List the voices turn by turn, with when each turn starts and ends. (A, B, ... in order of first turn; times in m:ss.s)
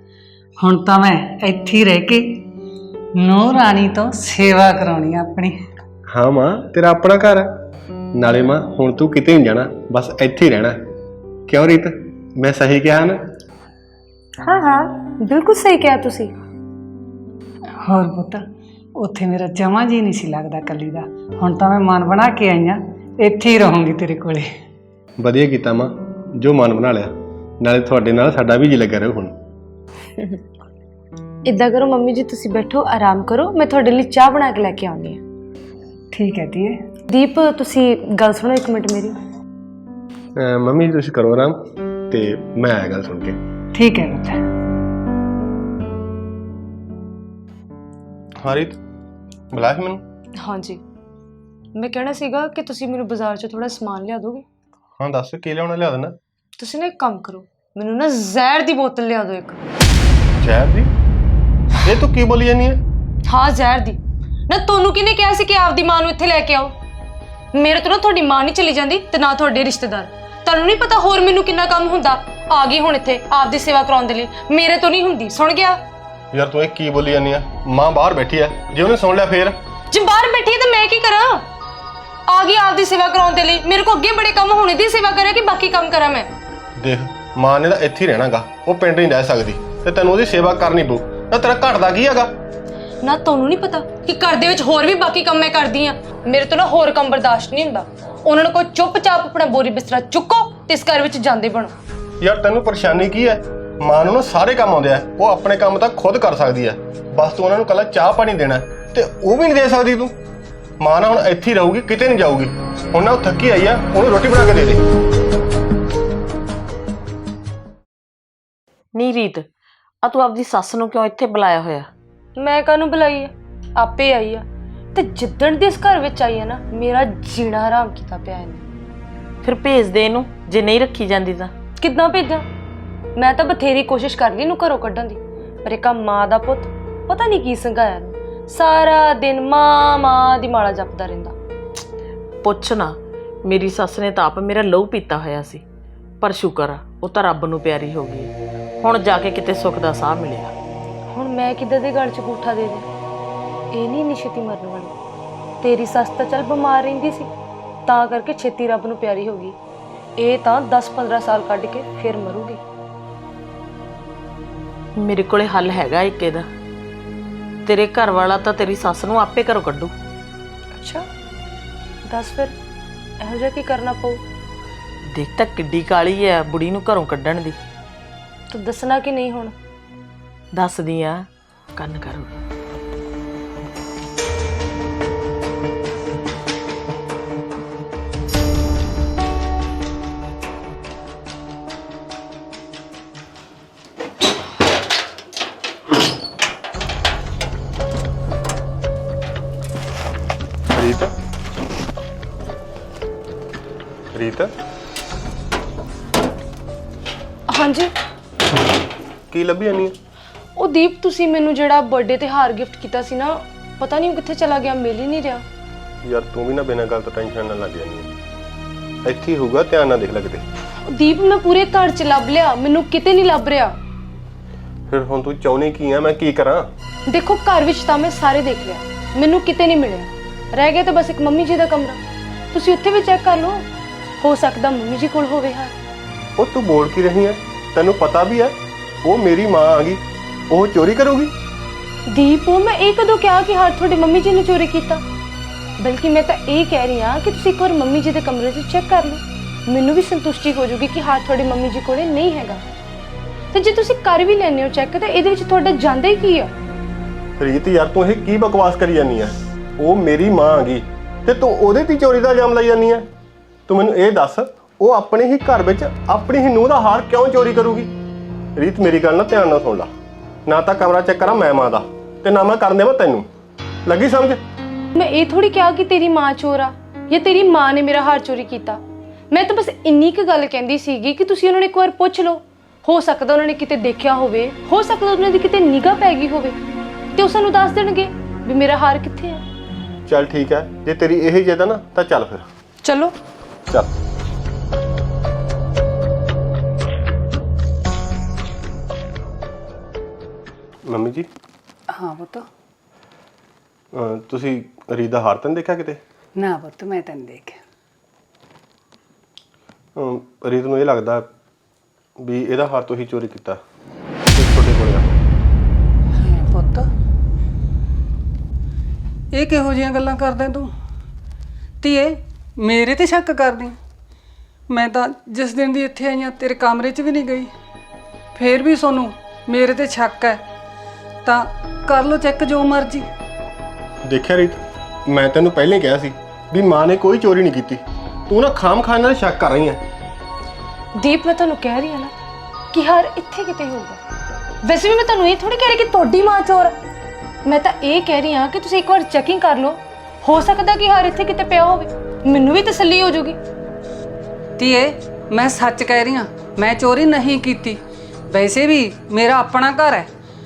0:00.6-0:02.4 A
0:03.2-0:05.6 A
0:06.1-0:07.5 B
0:08.1-0:10.8 B
0:11.5-0:13.2 B
0:14.4-0:16.3 C
0:17.8-0:18.4 A
0:19.0-0:24.5 A
0:25.2-0:29.4 B
0:31.4-0:35.2 C
0:36.1-0:36.8 A
0:37.1-0:39.1 C
0:40.4-0:43.4 B
0:43.7-0:44.4 A
0:48.4-0:48.8 B
0:49.5-0:50.0 B
0:50.4-0:50.8 C
0:51.8-0:54.4 C
0:55.0-0:56.1 B
0:56.6-0:59.6 C
1:00.4-1:00.9 B
1:01.8-1:02.8 B
1:03.3-1:06.8 C
1:07.5-1:15.8 C
1:16.3-1:19.6 B
1:19.9-1:21.4 C
1:22.3-1:26.3 C
1:26.8-1:32.3 B
1:33.0-1:41.7 C
1:42.2-1:50.2 B
1:50.8-1:54.9 B
1:58.9-1:59.4 D
2:00.0-2:01.9 D
2:02.4-2:08.6 C
2:09.4-2:11.5 D
2:11.8-2:12.4 C
2:13.2-2:21.3 C
2:22.4-2:25.6 D
2:26.2-2:30.5 D
2:31.1-2:32.8 C
2:33.7-2:34.9 C
2:35.6-2:37.3 C
2:37.9-2:39.6 C
2:40.2-2:42.6 C
2:45.0-2:46.5 D
2:47.6-2:49.9 D
2:50.8-2:51.0 C
2:52.0-2:52.5 C
2:53.2-2:54.2 C
2:55.1-2:57.6 D
2:58.5-2:59.5 C
3:00.5-3:02.3 D
3:20.7-3:21.1 B
3:24.1-3:24.5 B
3:27.5-3:27.9 C
3:29.3-3:29.9 B
3:30.6-3:35.4 C
3:36.0-3:38.1 B
3:39.0-3:40.4 B
3:40.8-3:43.7 C
3:44.9-3:46.7 B
3:47.1-3:52.0 C
3:52.5-3:53.6 C
3:54.2-3:55.7 C
3:56.4-4:01.3 B
4:02.1-4:05.0 C
4:05.8-4:12.6 C
4:13.5-4:16.5 C
4:17.4-4:23.1 B
4:23.7-4:27.9 B
4:28.6-4:29.9 B
4:30.4-4:33.3 B
4:33.8-4:34.4 B
4:34.9-4:46.6 C
4:47.1-4:49.4 C
4:50.1-4:52.4 B
4:52.8-4:53.1 C
5:00.8-5:01.3 B
5:01.9-5:02.4 A
5:03.9-5:06.0 B
5:06.4-5:07.6 A
5:10.0-5:11.2 B
5:12.2-5:13.6 B
5:14.3-5:15.2 B
5:16.2-5:16.9 A
5:19.3-5:20.7 A
5:21.8-5:23.8 A
5:24.7-5:27.5 A
5:28.3-5:30.4 A
5:31.2-5:33.0 A
5:34.0-5:39.8 B
5:41.0-5:42.1 C
5:42.7-5:44.0 C
5:44.6-5:46.7 C
5:47.4-5:53.4 C
5:54.6-6:00.1 A